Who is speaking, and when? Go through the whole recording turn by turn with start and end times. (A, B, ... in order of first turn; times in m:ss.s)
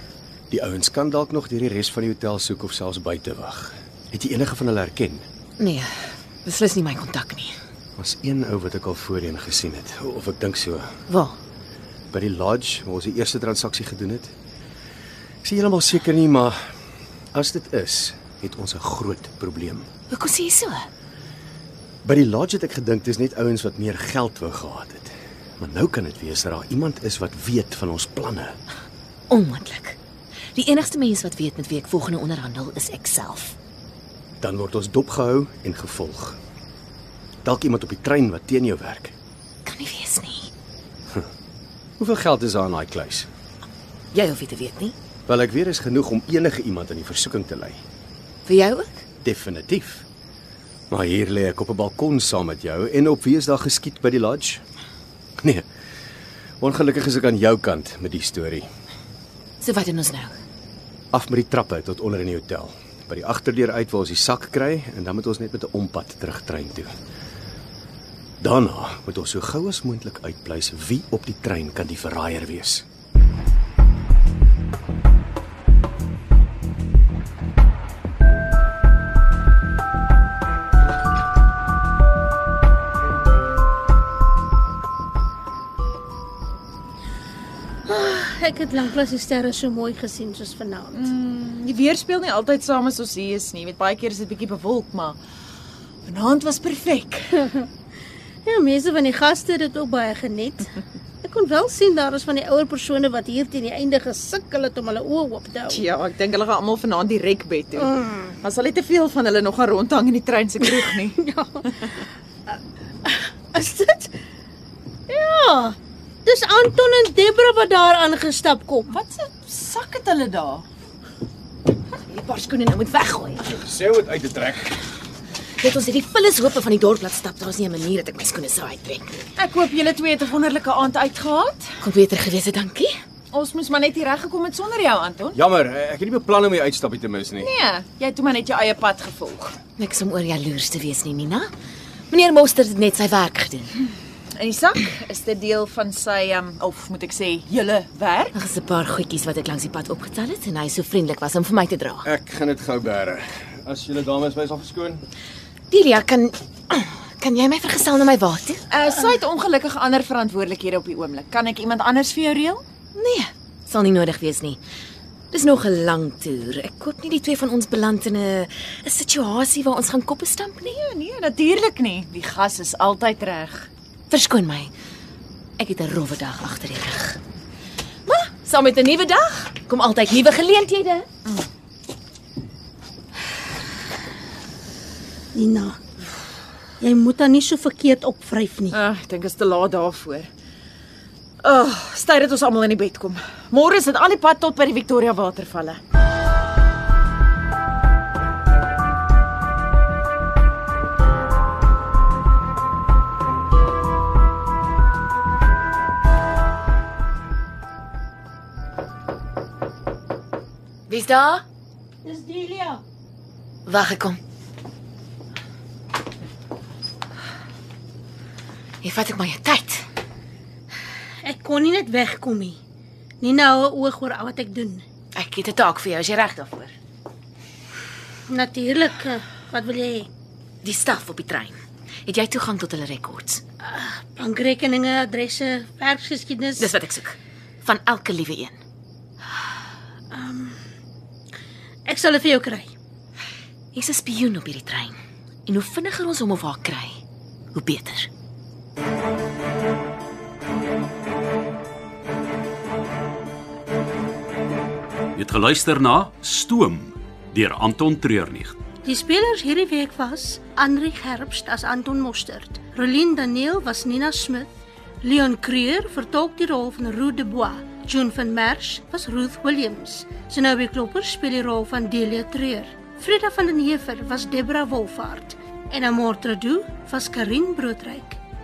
0:00.5-0:05.2 A
0:05.6-0:05.9 B
0:06.4-0:07.6 B
0:08.0-0:10.9 A
0:11.1-0:11.4 B
0:12.1-0:14.3 A
0:15.4-0:16.6 A
0:17.3-0:19.9 A
0:20.1-0:20.9 B
0:22.0-0:28.6 A
0:29.3-0:30.0 B
0:30.6-0:33.6 B
0:34.4-0:36.4 A
0:37.4-0:39.1 A
0:39.6-0:40.5 B
0:42.0-0:43.3 A
0:44.1-0:45.0 B
0:45.3-0:47.8 A
0:48.5-0:49.0 B
0:49.2-0:50.0 A
0:50.9-0:54.6 A
0:56.6-0:58.7 A
0:59.6-1:00.4 B
1:01.1-1:06.9 A
1:08.4-1:12.8 A
1:27.9-1:31.0 C
1:30.9-1:35.2 D
1:36.1-1:37.3 D
1:38.4-1:45.8 C
1:45.7-1:51.7 D
1:47.9-1:48.2 C
1:51.2-1:51.6 C
1:53.5-1:54.1 C
1:55.1-1:58.9 C
1:58.9-2:00.7 D
2:02.0-2:03.5 B
2:03.5-2:04.8 A
2:05.6-2:09.3 B
2:09.4-2:11.8 D
2:11.8-2:12.9 B
2:13.3-2:15.4 D
2:15.3-2:17.5 A
2:17.4-2:19.6 D
2:19.8-2:21.5 B
2:22.1-2:23.7 B
2:24.4-2:28.3 D
2:28.3-2:32.1 B
2:32.0-2:35.0 A
2:35.7-2:38.6 B
2:38.7-2:42.6 D
2:43.0-2:44.6 B
2:45.3-2:50.8 B
2:50.7-2:53.7 D
2:54.1-2:54.7 B
2:55.6-2:57.2 B
2:58.3-3:01.1 B
3:05.3-3:05.8 C
3:06.8-3:08.8 C
3:08.7-3:10.3 D
3:11.4-3:15.8 D
3:30.9-3:31.4 B
3:32.0-3:32.8 C
3:33.7-3:34.2 B
3:38.8-3:39.9 B
3:41.2-3:42.6 C
3:43.2-3:44.8 C
3:45.2-3:46.7 B
3:48.3-3:50.1 C
3:50.6-3:53.4 B
3:53.6-3:56.7 C
3:56.6-3:58.6 B
4:00.1-4:00.6 C
4:01.9-4:02.7 C
4:03.7-4:07.0 B
4:07.5-4:08.1 B
4:15.2-4:18.7 E
4:18.8-4:24.5 C
4:25.0-4:38.2 C